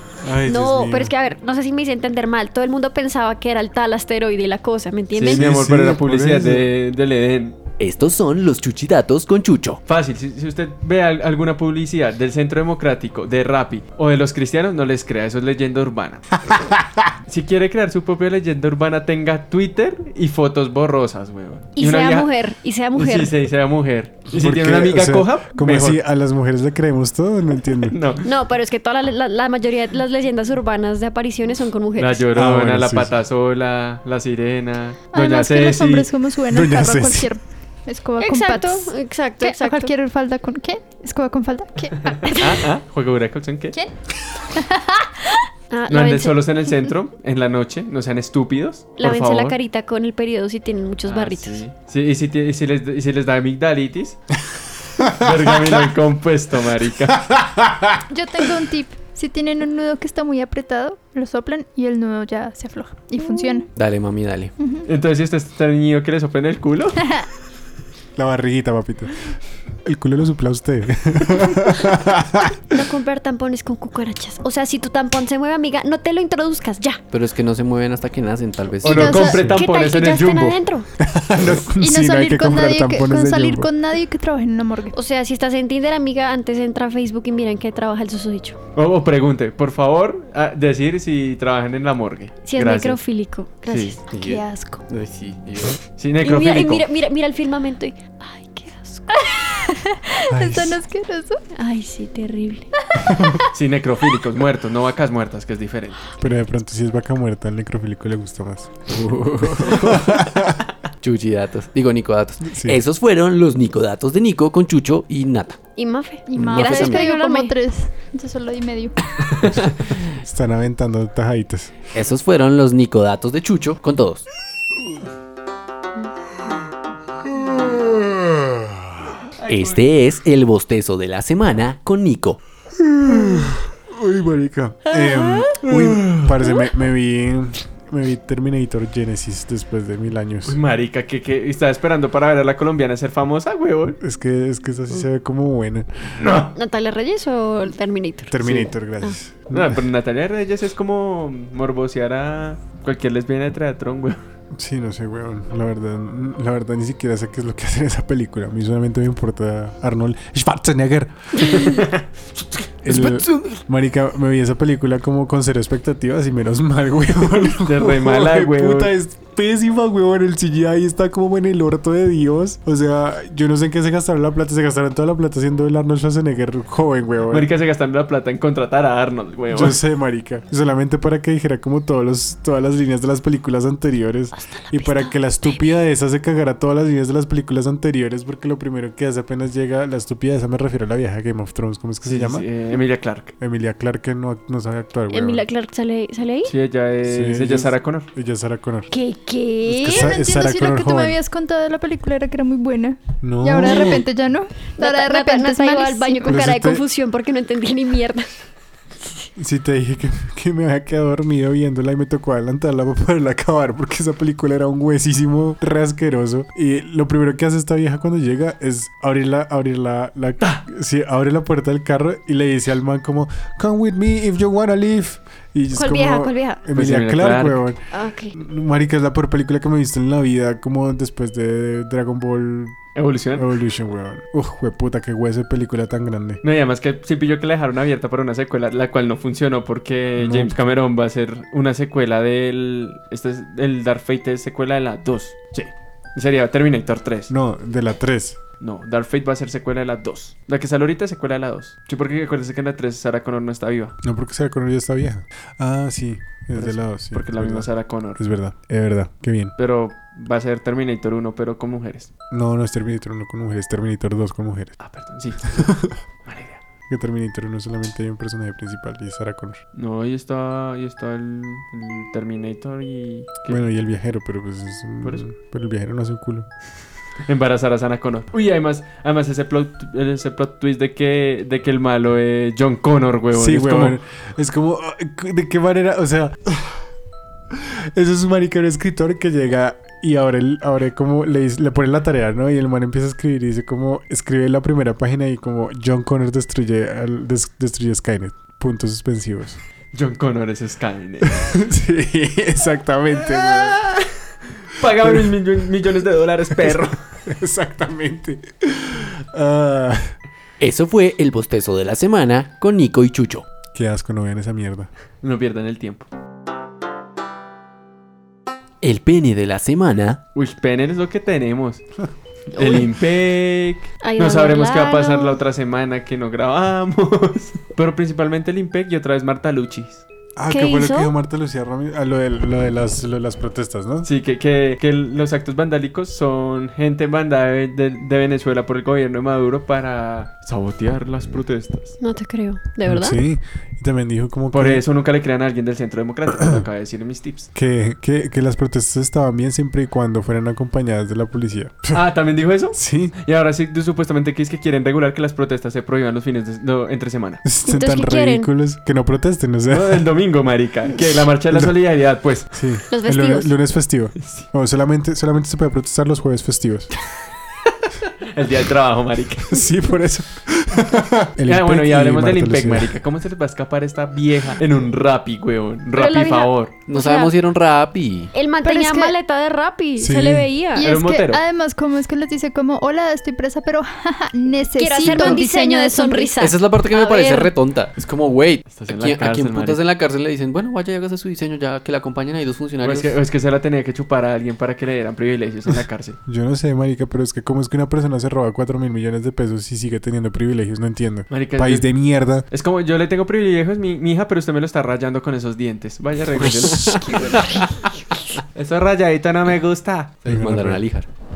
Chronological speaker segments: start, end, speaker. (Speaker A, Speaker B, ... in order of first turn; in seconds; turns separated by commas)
Speaker A: 0.2-1.1, Speaker B: 0.5-5.5, Speaker C: 5.1-7.6, Speaker A: 5.3-6.7, Speaker D: 7.8-9.8, Speaker C: 9.9-16.4, Speaker A: 16.5-17.1, Speaker C: 17.3-22.3, Speaker B: 21.8-23.3, Speaker C: 22.9-26.0, Speaker A: 24.3-28.0, Speaker C: 27.8-28.3, Speaker B: 28.2-32.3, Speaker C: 32.0-36.1, Speaker A: 32.3-33.1, Speaker E: 35.1-42.4, Speaker A: 36.5-37.3, Speaker B: 38.2-39.9, Speaker C: 42.3-43.7, Speaker E: 44.5-45.4, Speaker B: 45.7-46.7, Speaker C: 45.9-49.5, Speaker B: 49.0-51.6, Speaker C: 51.1-54.2, Speaker C: 55.0-57.3, Speaker A: 55.0-55.3, Speaker E: 58.1-63.7, Speaker D: 63.7-64.5, Speaker E: 64.6-64.9, Speaker C: 64.9-67.1, Speaker A: 68.2-69.1, Speaker A: 69.8-72.5, Speaker B: 72.7-77.0, Speaker D: 77.1-79.3, Speaker E: 78.8-79.4, Speaker C: 78.8-80.6, Speaker A: 79.2-79.6, Speaker B: 79.5-80.9, Speaker A: 81.0-83.7, Speaker E: 81.8-85.0, Speaker B: 84.9-88.6, Speaker C: 88.7-93.0, Speaker B: 92.5-94.0, Speaker C: 93.6-94.0, Speaker D: 94.1-95.8, Speaker E: 94.1-94.9, Speaker C: 96.0-96.9, Speaker B: 96.2-99.3, Speaker E: 99.1-101.4, Speaker A: 100.3-100.8, Speaker B: 101.5-102.7, Speaker A: 103.1-103.4, Speaker C: 103.5-106.1, Speaker A: 106.2-108.7, Speaker D: 108.9-110.4, Speaker A: 109.6-110.6, Speaker D: 111.0-115.6, Speaker A: 112.4-112.8, Speaker B: 115.8-117.5, Speaker E: 116.3-119.0, Speaker D: 116.3-117.0, Speaker C: 119.3-119.5, Speaker A: 120.1-121.7, Speaker D: 121.9-124.3, Speaker A: 127.3-129.1, Speaker C: 129.4-129.9, Speaker D: 129.5-132.4, Speaker A: 132.8-140.6, Speaker B: 134.9-135.6, Speaker C: 135.6-136.4, Speaker C: 140.4-144.0, Speaker A: 144.0-146.4, Speaker C: 146.2-146.5, Speaker B: 146.6-149.2, Speaker A: 148.3-149.8, Speaker C: 149.5-154.2, Speaker A: 154.6-161.8, Speaker B: 161.5-161.8, Speaker C: 161.6-162.0, Speaker A: 162.8-177.5, Speaker D: 162.9-163.6, Speaker C: 167.5-168.9, Speaker C: 177.3-179.8, Speaker A: 179.5-192.5, Speaker B: 184.3-185.6, Speaker C: 192.0-193.3, Speaker A: 193.4-195.4, Speaker B: 195.1-196.5, Speaker C: 196.4-198.1, Speaker A: 197.0-198.9, Speaker B: 198.9-200.1, Speaker A: 199.7-201.2, Speaker E: 199.7-206.4, Speaker A: 203.2-204.0, Speaker B: 204.8-208.3, Speaker A: 206.3-206.8, Speaker A: 209.4-232.8, Speaker B: 225.7-226.6, Speaker C: 226.7-227.6, Speaker B: 227.9-228.3, Speaker C: 232.9-233.5, Speaker A: 233.4-236.4, Speaker C: 236.4-247.3, Speaker A: 240.2-240.6, Speaker A: 247.3-248.4, Speaker C: 248.6-254.0, Speaker A: 254.0-259.6, Speaker C: 256.6-258.2, Speaker C: 259.6-262.1, Speaker A: 262.3-264.7, Speaker C: 264.8-265.7, Speaker A: 265.5-266.0, Speaker C: 266.3-266.6, Speaker A: 266.9-269.6, Speaker C: 269.7-273.6, Speaker A: 273.5-276.5, Speaker C: 277.3-284.0, Speaker A: 283.3-286.8, Speaker A: 287.5-299.6, Speaker C: 299.9-301.6, Speaker A: 301.3-303.9, Speaker C: 303.4-304.1, Speaker C: 304.7-307.0, Speaker A: 305.0-305.3, Speaker A: 306.5-310.1, Speaker D: 310.6-313.4, Speaker A: 313.7-314.9, Speaker C: 315.2-316.1, Speaker D: 318.8-320.2, Speaker C: 320.3-321.8, Speaker C: 322.6-330.0, Speaker B: 324.0-325.4, Speaker A: 330.4-334.1, Speaker B: 330.5-331.1, Speaker C: 334.0-342.0, Speaker B: 342.0-343.2, Speaker A: 342.9-344.8, Speaker C: 344.5-347.5, Speaker A: 346.4-346.6, Speaker A: 347.6-352.1, Speaker C: 351.9-357.4, Speaker A: 352.7-353.1, Speaker A: 357.4-360.1, Speaker B: 357.6-358.5, Speaker C: 359.7-362.5, Speaker A: 361.5-361.8, Speaker A: 362.5-366.9, Speaker B: 362.9-363.5, Speaker C: 364.2-364.4, Speaker C: 368.2-369.6, Speaker A: 369.5-372.9, Speaker C: 371.4-376.7, Speaker B: 375.9-377.3, Speaker D: 376.9-378.3, Speaker B: 378.3-380.9, Speaker E: 378.6-379.1, Speaker A: 380.0-380.5, Speaker E: 380.7-386.3, Speaker C: 380.8-381.4, Speaker B: 384.8-387.5, Speaker C: 385.1-385.3, Speaker D: 386.4-393.1, Speaker C: 388.7-389.8, Speaker C: 392.8-396.2, Speaker A: 396.3-402.4, Speaker C: 401.3-401.9, Speaker C: 402.5-407.4, Speaker A: 406.6-407.2, Speaker D: 406.8-407.2, Speaker C: 408.6-410.2, Speaker D: 410.2-411.1, Speaker A: 410.3-410.9